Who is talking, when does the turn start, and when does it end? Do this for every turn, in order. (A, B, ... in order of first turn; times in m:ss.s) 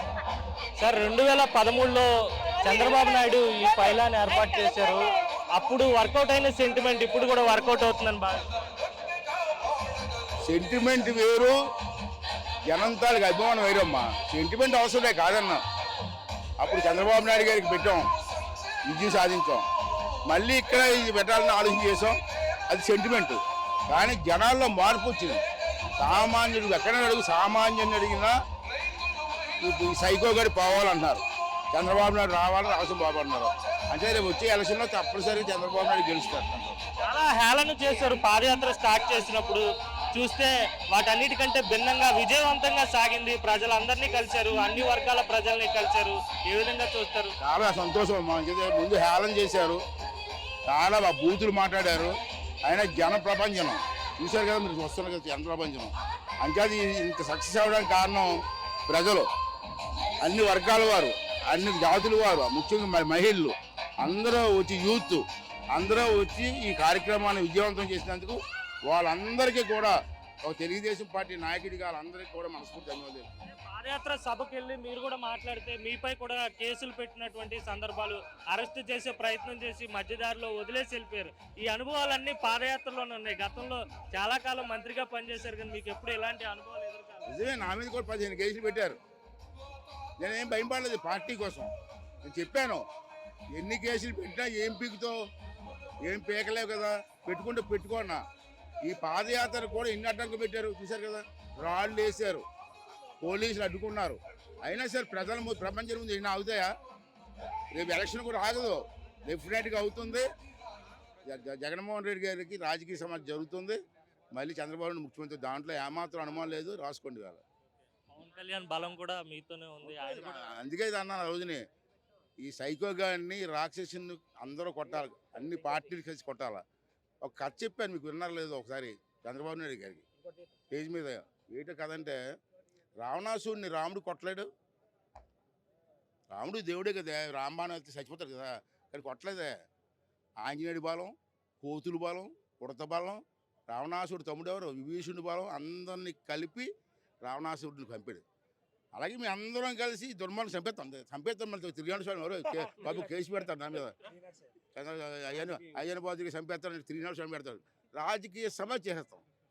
0:00.8-0:08.4 A
0:10.4-0:11.6 B
0:12.7-0:15.6 B
0:16.6-0:18.1 B
0:18.8-0:19.6 B
0:20.3-0:25.4 B
0:26.0-0:28.3 B
0:29.6-0:36.8 B
0:37.0-0:47.3 A
0:47.4-0:49.8 B
0:50.7-0:58.4 B
0:58.9-0:59.3 B
1:00.2-1:13.2 B
1:13.5-1:27.3 A
1:27.3-1:29.0 B
1:30.2-1:31.7 B
1:32.2-1:32.8 B
1:33.5-1:35.2 B
1:36.0-1:38.2 B
1:38.8-1:42.4 B
1:43.2-1:46.7 B
1:47.7-1:50.3 B
1:51.2-1:53.8 B
1:54.3-1:57.4 B
1:58.1-2:00.5 A
1:59.8-2:01.6 B
2:02.4-2:06.6 B
2:07.2-2:10.0 B
2:10.7-2:12.2 B
2:13.0-2:14.5 B
2:16.3-2:19.5 B
2:20.4-2:26.7 B
2:27.2-2:28.2 B
2:28.9-2:34.0 B
2:34.7-2:39.2 B